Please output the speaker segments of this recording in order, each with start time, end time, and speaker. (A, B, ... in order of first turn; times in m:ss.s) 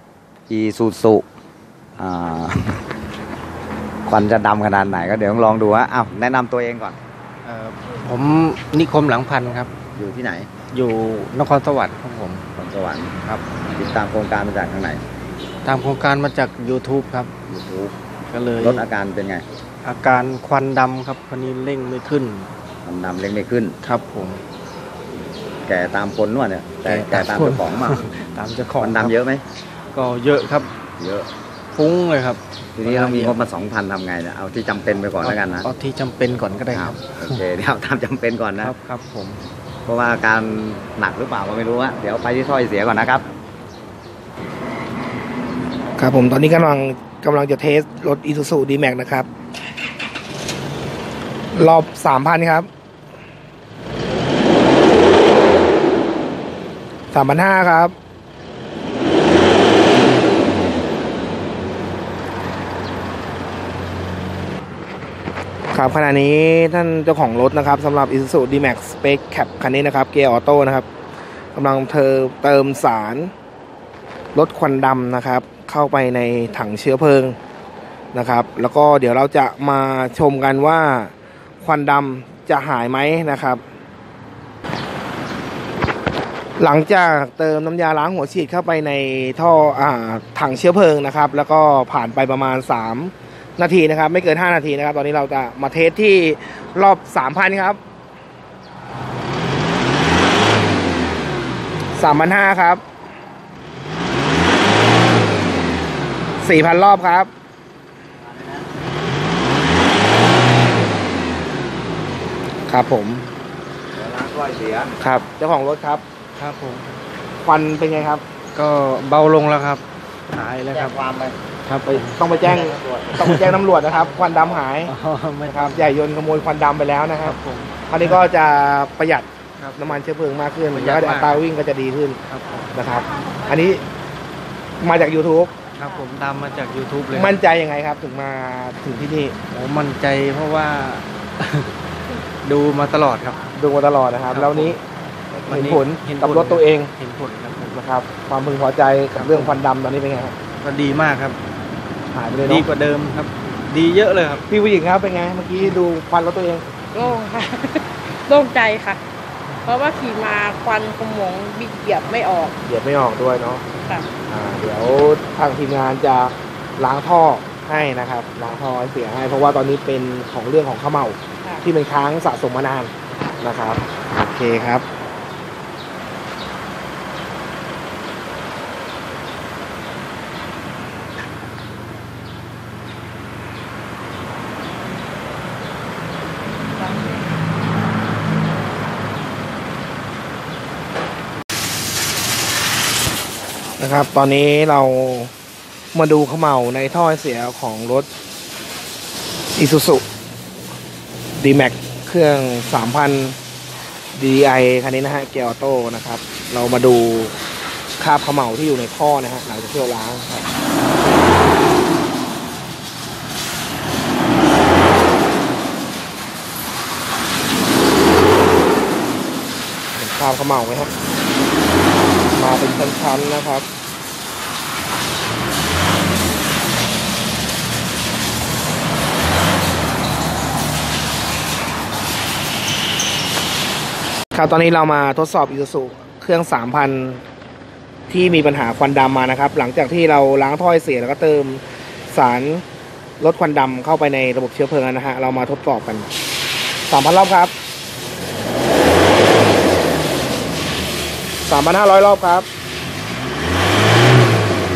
0:00.5-0:01.2 A
0:02.0-0:02.8 A
0:04.0-0:07.0 A
0:07.4-0:09.7 B
0:09.9-0:10.5 A
0:10.7-0:12.4 B
0:12.6-0:13.1 A
0:13.8-0:15.0 A
0:15.6-0:17.3 B
0:17.5-0:17.9 A
0:18.3-0:18.9 B
0:18.6-0:19.4 A
0:19.8-0:22.5 B
0:22.8-0:23.7 A
0:23.8-0:24.4 B
0:25.6-0:28.0 A
0:26.8-0:29.1 B
0:28.8-0:29.4 A
0:29.9-0:30.7 B
0:31.0-0:31.3 A
0:31.7-0:33.4 B
0:32.8-0:35.7 A
0:35.2-0:37.4 B
0:36.7-0:38.7 A
0:38.6-0:39.4 B
0:39.8-0:43.2 A
0:46.0-0:49.3 C
0:51.5-0:52.7 C
0:57.1-0:57.9 C
1:05.7-1:10.9 C
1:11.5-1:13.3 C
1:14.3-1:17.4 C
1:18.1-1:23.6 C
1:26.6-1:37.8 C
1:41.9-1:42.8 C
1:46.4-1:47.3 C
1:52.7-1:53.3 C
1:53.9-1:54.9 A
1:55.0-1:56.0 C
1:56.4-1:57.0 B
1:57.4-1:58.2 C
1:58.5-2:01.0 B
2:00.7-2:01.4 A
2:01.6-2:03.5 B
2:01.9-2:04.9 C
2:02.4-2:03.3 A
2:03.8-2:04.6 A
2:04.8-2:06.0 B
2:05.5-2:07.4 C
2:07.2-2:08.2 B
2:07.9-2:12.2 C
2:09.6-2:10.0 B
2:10.7-2:11.4 B
2:12.3-2:12.8 B
2:12.7-2:13.8 C
2:14.8-2:15.5 C
2:15.7-2:17.4 B
2:17.1-2:19.4 C
2:19.5-2:21.8 B
2:22.4-2:23.4 B
2:23.5-2:24.8 C
2:24.3-2:24.8 B
2:25.3-2:27.8 B
2:25.4-2:26.9 C
2:27.7-2:30.4 C
2:29.1-2:29.6 B
2:30.6-2:31.4 B
2:32.1-2:32.7 C
2:32.4-2:34.4 B
2:34.5-2:36.7 C
2:36.9-2:39.0 D
2:39.6-2:42.5 D
2:42.6-2:43.6 C
2:44.3-2:54.8 C
3:13.8-3:15.3 C
3:15.9-3:18.1 C
3:19.5-3:20.0 C
3:21.4-3:23.4 C
3:24.1-3:27.4 C
3:28.0-3:30.4 C
3:39.9-3:40.9 C
3:42.3-3:43.6 C
3:54.3-3:57.2 C
3:58.1-4:02.6 C
4:03.2-4:06.1 C
4:06.9-4:07.5 C
4:11.4-4:12.4 C